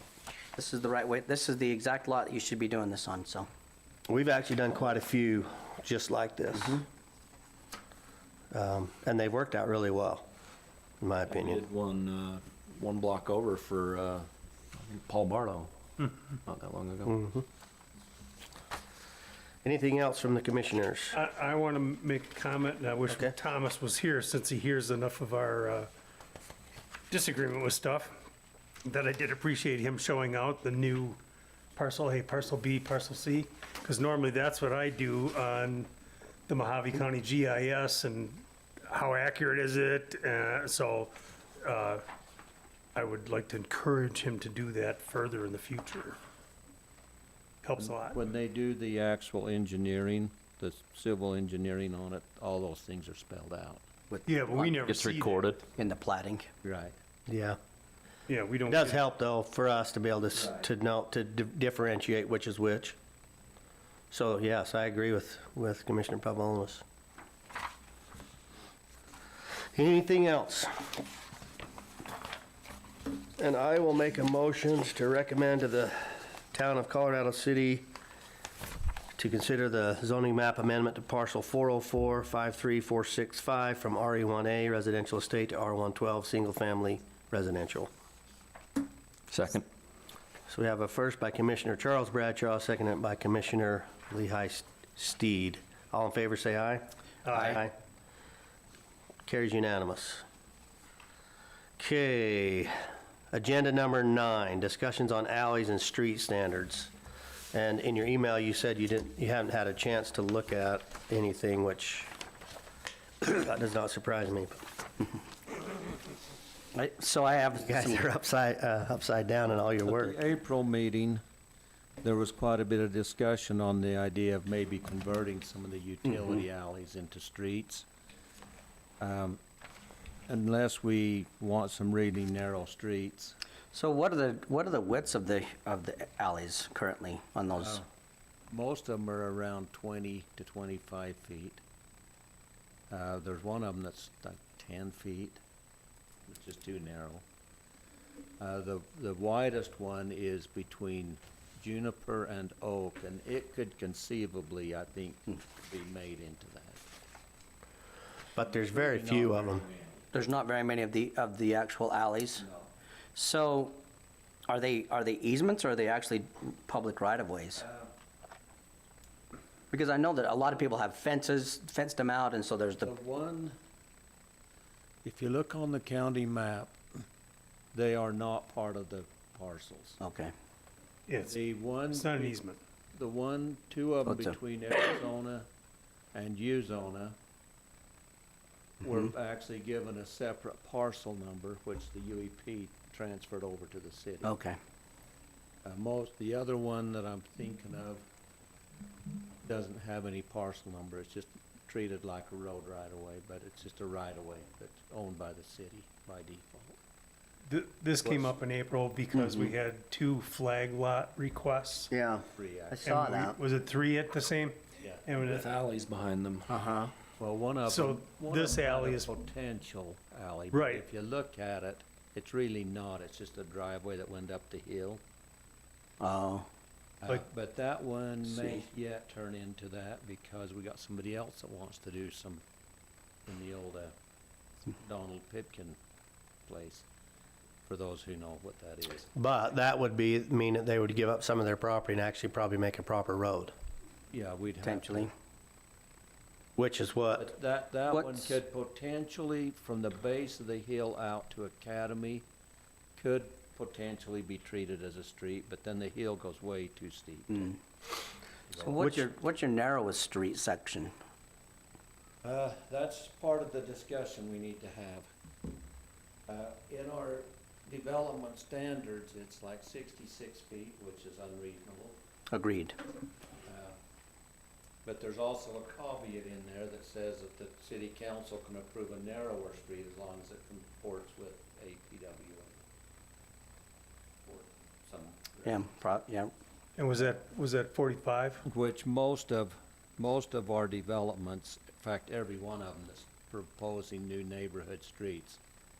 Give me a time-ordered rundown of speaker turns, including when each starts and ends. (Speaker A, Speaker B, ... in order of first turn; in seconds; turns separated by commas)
Speaker A: 0.6-3.5, Speaker B: 4.1-6.8, Speaker B: 8.5-10.2, Speaker B: 11.0-11.6, Speaker C: 11.3-17.2, Speaker B: 17.1-17.4, Speaker B: 19.6-21.2, Speaker D: 21.1-25.9, Speaker B: 23.1-23.3, Speaker D: 27.1-28.1, Speaker D: 28.8-31.2, Speaker D: 31.8-35.9, Speaker D: 36.5-42.0, Speaker D: 42.9-46.2, Speaker D: 47.6-48.2, Speaker E: 47.8-53.8, Speaker A: 54.1-54.7, Speaker D: 54.2-55.5, Speaker C: 54.9-55.6, Speaker A: 55.8-56.5, Speaker E: 56.6-57.0, Speaker B: 57.3-57.6, Speaker D: 58.3-59.0, Speaker B: 58.7-63.0, Speaker B: 64.1-66.8, Speaker B: 69.7-70.9, Speaker B: 73.4-77.9, Speaker B: 79.2-87.9, Speaker C: 89.3-89.6, Speaker B: 90.5-97.7, Speaker B: 99.2-100.2, Speaker B: 101.8-102.8, Speaker B: 103.3-106.9, Speaker B: 107.5-112.1, Speaker B: 113.2-114.6, Speaker A: 116.7-118.0, Speaker B: 117.6-120.2, Speaker E: 119.8-121.2, Speaker E: 122.0-127.9, Speaker E: 129.0-129.4, Speaker E: 130.3-133.3, Speaker A: 133.7-137.8, Speaker E: 137.6-137.8, Speaker E: 138.5-141.6, Speaker E: 142.9-145.4, Speaker E: 146.3-147.2, Speaker E: 148.4-156.8, Speaker B: 158.3-159.7, Speaker E: 158.3-160.1, Speaker A: 160.1-162.4, Speaker E: 162.4-162.7, Speaker A: 163.1-163.8, Speaker A: 164.5-167.6, Speaker E: 167.6-167.9, Speaker A: 169.7-172.9, Speaker E: 172.8-173.6, Speaker E: 175.0-176.8, Speaker E: 177.7-180.0, Speaker A: 180.0-180.3, Speaker D: 181.1-181.3, Speaker E: 181.2-185.5, Speaker D: 181.9-182.6, Speaker A: 184.1-184.3, Speaker E: 186.1-187.2, Speaker E: 188.8-194.3, Speaker A: 194.2-194.6, Speaker E: 195.6-198.0, Speaker E: 199.4-206.8, Speaker D: 207.5-211.9, Speaker E: 208.0-208.3, Speaker A: 211.9-213.3, Speaker E: 212.3-212.8, Speaker D: 212.8-215.5, Speaker B: 212.9-213.3, Speaker C: 215.2-216.6, Speaker E: 217.2-225.0, Speaker D: 217.7-219.1, Speaker D: 220.5-220.8, Speaker A: 226.0-226.5, Speaker E: 227.0-232.4, Speaker E: 233.3-233.9, Speaker E: 234.7-235.8, Speaker E: 236.4-236.8, Speaker E: 237.6-239.1, Speaker B: 239.2-243.5, Speaker E: 244.1-245.1, Speaker A: 244.6-245.1, Speaker B: 246.6-247.3, Speaker E: 247.2-252.2, Speaker A: 247.9-248.3, Speaker E: 252.9-257.5, Speaker E: 258.5-259.0, Speaker A: 258.6-260.9, Speaker E: 262.2-265.1, Speaker E: 266.3-272.0, Speaker A: 272.3-272.8, Speaker E: 273.4-273.8, Speaker E: 274.8-282.6, Speaker E: 284.2-285.7, Speaker A: 285.4-286.3, Speaker D: 286.8-288.4, Speaker E: 288.4-295.4